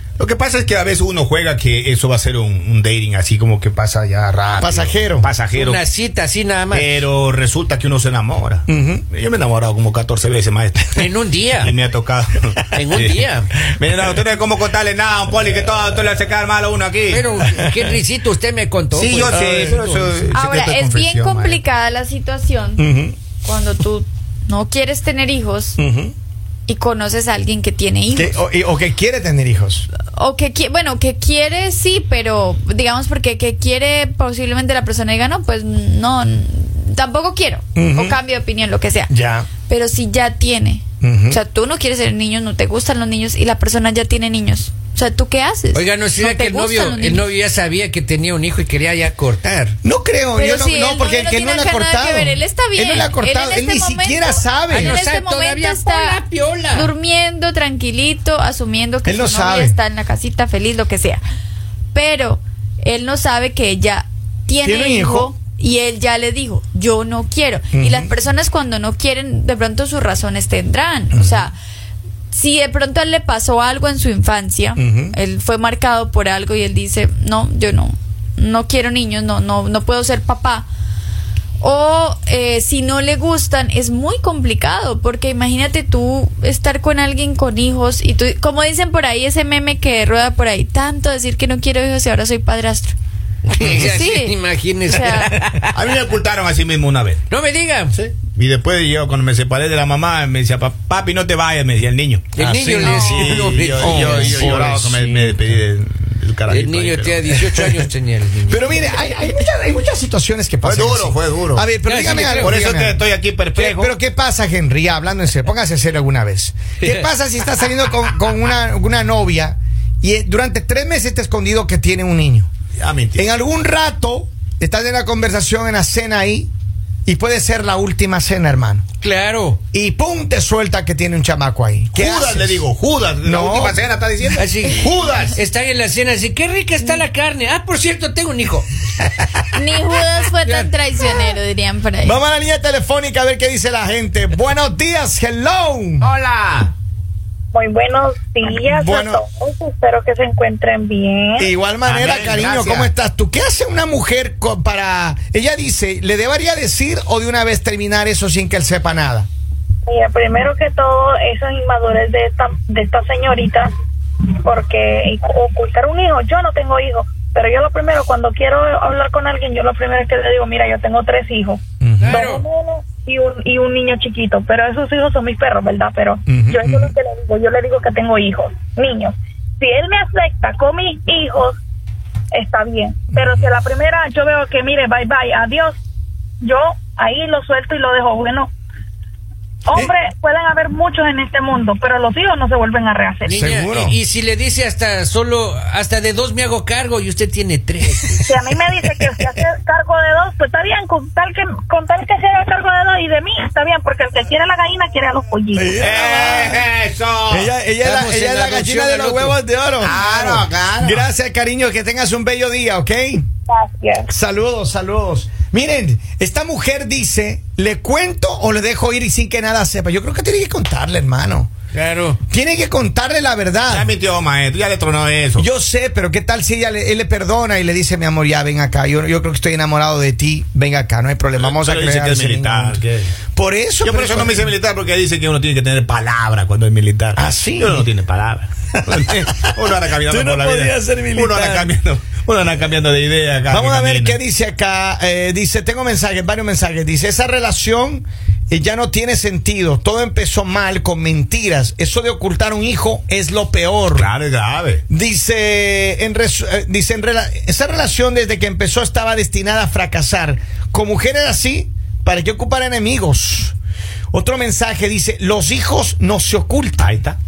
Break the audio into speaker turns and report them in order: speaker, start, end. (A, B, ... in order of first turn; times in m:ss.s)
0:00.2-0:05.8 A
0:04.6-0:05.3 B
0:05.5-0:06.9 C
0:06.7-0:17.2 A
0:08.7-0:09.0 B
0:11.0-0:11.7 C
0:12.7-0:13.5 C
0:17.1-0:20.2 C
0:18.9-0:21.6 A
0:19.3-0:19.8 B
0:20.3-0:22.8 D
0:22.8-0:23.2 B
0:23.4-0:25.8 D
0:25.8-0:26.1 B
0:26.7-0:28.4 D
0:28.1-0:29.9 B
0:30.0-0:39.1 D
0:37.7-0:38.2 B
0:39.1-0:39.5 B
0:39.6-0:47.2 D
0:41.0-0:41.4 B
0:45.7-0:49.4 C
0:49.4-0:55.0 B
0:50.3-0:56.2 D
0:54.7-0:56.9 C
0:56.7-1:01.2 D
0:59.0-0:59.8 B
1:01.9-1:11.5 D
1:04.6-1:05.3 B
1:07.7-1:08.1 B
1:11.1-1:11.5 B
1:12.3-1:20.7 D
1:14.8-1:15.2 B
1:21.6-1:32.9 D
1:33.5-1:35.7 C
1:33.7-1:35.3 D
1:35.7-1:37.2 A
1:37.3-1:37.9 C
1:37.9-1:47.3 A
1:42.3-1:45.5 C
1:42.4-1:44.9 B
1:42.8-1:43.4 D
1:46.5-1:48.9 C
1:48.5-2:02.5 B
1:50.6-1:51.6 A
1:51.8-1:52.6 C
1:52.3-1:53.9 A
2:02.8-2:03.3 A
2:03.1-2:06.5 B
2:07.0-2:08.8 B
2:09.0-2:09.6 C
2:09.7-2:12.6 B
2:11.9-2:15.4 A
2:13.2-2:13.8 B
2:14.4-2:18.7 C
2:19.5-2:22.2 D
2:20.4-2:20.7 C
2:22.0-2:26.1 B
2:26.0-2:26.7 A
2:27.5-2:31.5 E
2:28.5-2:29.2 B
2:31.4-2:39.3 B
2:31.8-2:32.9 A
2:39.8-2:43.7 E
2:44.4-3:01.6 E
2:51.8-2:52.2 B
2:52.0-2:52.4 C
2:56.3-2:56.9 B
3:02.3-3:05.8 E
3:03.1-3:03.5 B
3:06.4-3:08.5 E
3:09.7-3:13.3 E
3:13.2-3:18.3 C
3:13.3-3:14.0 B
3:18.2-3:25.7 E
3:25.5-3:26.6 B
3:25.8-3:27.5 A
3:27.3-3:33.2 B
3:27.8-3:29.4 C
3:29.8-3:31.1 A
3:33.5-3:34.1 E
3:34.1-3:41.5 B
3:41.7-3:42.2 C
3:42.3-3:43.9 B
3:43.7-3:45.5 A
3:45.4-3:54.5 B
3:51.4-3:53.2 A
3:53.8-4:04.2 A
3:57.1-3:57.9 B
3:58.8-3:59.4 B
4:00.0-4:01.7 B
4:03.5-4:14.1 B
4:13.9-4:14.8 A
4:14.9-4:23.5 B
4:24.1-4:27.0 B
4:26.8-4:27.2 A